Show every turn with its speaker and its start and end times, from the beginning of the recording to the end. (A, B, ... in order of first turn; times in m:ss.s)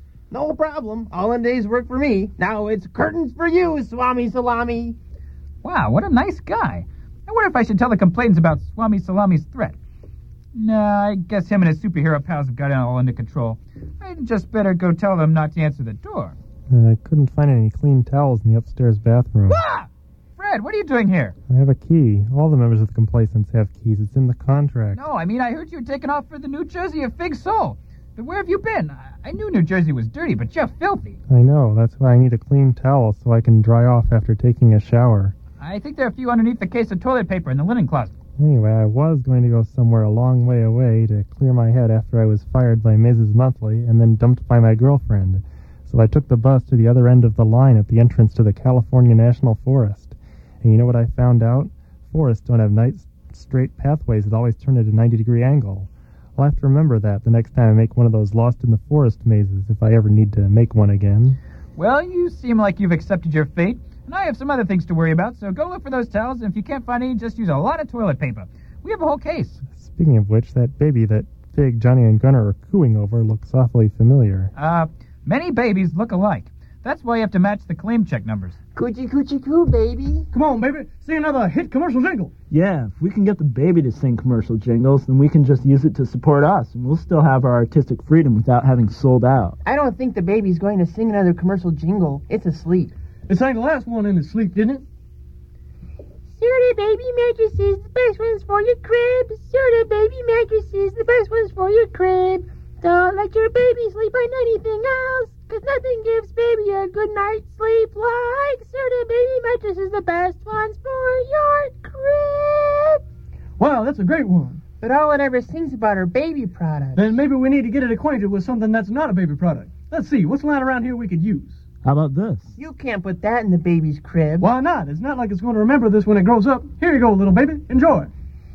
0:00.3-0:05.0 A
0:05.6-0:09.8 B
0:10.6-0:16.4 B
0:16.7-0:19.6 C
0:19.5-0:21.4 B
0:21.5-0:25.0 C
0:24.9-0:31.2 B
0:31.3-0:35.3 C
0:35.6-0:38.1 B
0:38.4-1:01.4 C
1:01.8-1:09.6 B
1:09.8-1:14.5 C
1:14.6-1:18.6 B
1:18.8-1:20.3 A
1:20.3-1:22.3 D
1:22.5-1:29.6 E
1:29.6-1:32.9 A
1:33.3-1:34.8 D
1:36.3-1:53.0 F
1:53.6-1:54.6 D
1:54.8-1:57.2 A
1:57.0-2:01.6 D
2:01.8-2:02.5 E
2:02.6-2:04.5 A
2:04.4-2:08.1 D